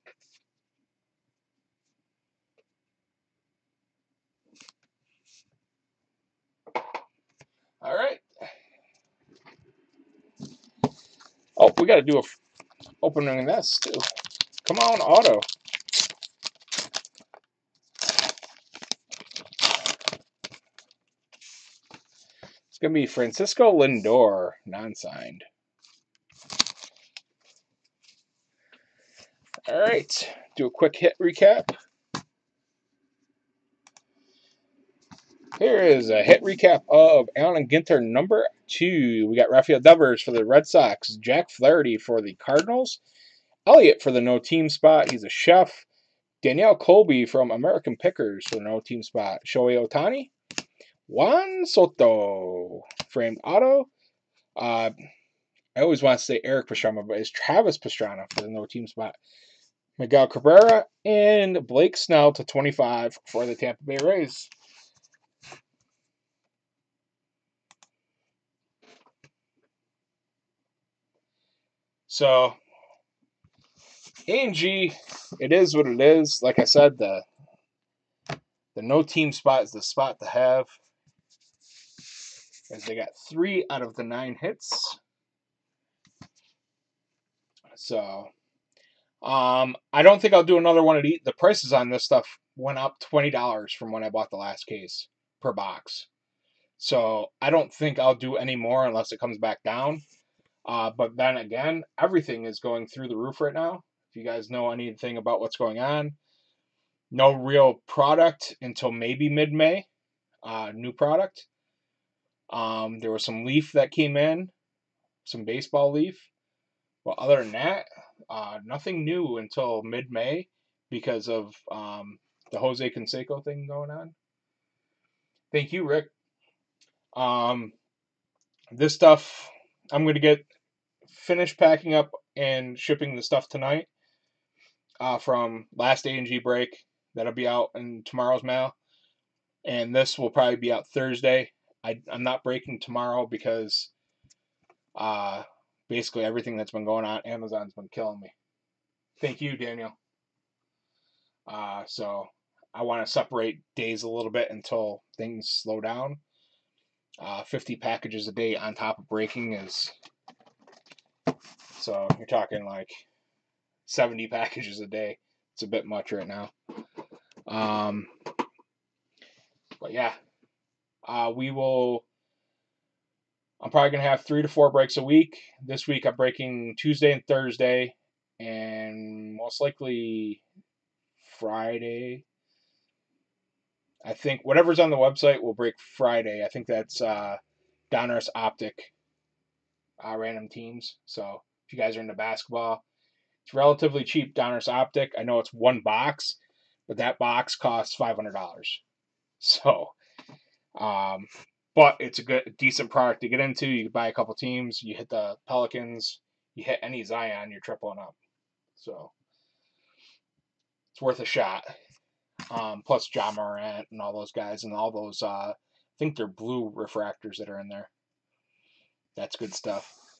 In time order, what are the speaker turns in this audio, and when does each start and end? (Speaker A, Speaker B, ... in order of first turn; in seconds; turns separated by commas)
Speaker A: 7.8-8.2, Speaker A: 11.6-12.4, Speaker A: 13.0-14.1, Speaker A: 14.6-15.5, Speaker A: 22.7-25.5, Speaker A: 29.7-31.7, Speaker A: 35.6-43.0, Speaker A: 43.7-45.9, Speaker A: 46.4-50.3, Speaker A: 51.1-53.9, Speaker A: 54.6-54.9, Speaker A: 55.8-59.2, Speaker A: 60.0-64.5, Speaker A: 72.1-72.6, Speaker A: 74.3-77.3, Speaker A: 78.7-80.7, Speaker A: 82.7-85.0, Speaker A: 87.7-88.3, Speaker A: 89.2-96.1, Speaker A: 96.8-100.0, Speaker A: 100.7-106.2, Speaker A: 107.1-109.9, Speaker A: 110.4-111.5, Speaker A: 112.5-114.5, Speaker A: 115.2-116.3, Speaker A: 117.0-124.2, Speaker A: 125.5-126.1, Speaker A: 127.2-127.8, Speaker A: 128.7-130.5, Speaker A: 131.1-133.9, Speaker A: 135.0-138.8, Speaker A: 139.6-143.9, Speaker A: 145.0-148.3, Speaker A: 149.2-150.0, Speaker A: 151.5-156.2, Speaker A: 157.2-159.9, Speaker A: 161.8-163.0, Speaker A: 163.9-166.5, Speaker A: 167.5-168.1, Speaker A: 169.8-170.2, Speaker A: 171.1-172.1, Speaker A: 173.6-180.4, Speaker A: 181.2-182.2, Speaker A: 184.0-187.4, Speaker A: 187.9-188.9, Speaker A: 190.0-192.8, Speaker A: 193.4-198.8, Speaker A: 199.4-200.0, Speaker A: 200.8-208.2, Speaker A: 208.8-209.1, Speaker A: 210.9-211.7, Speaker A: 212.5-217.9, Speaker A: 219.2-220.0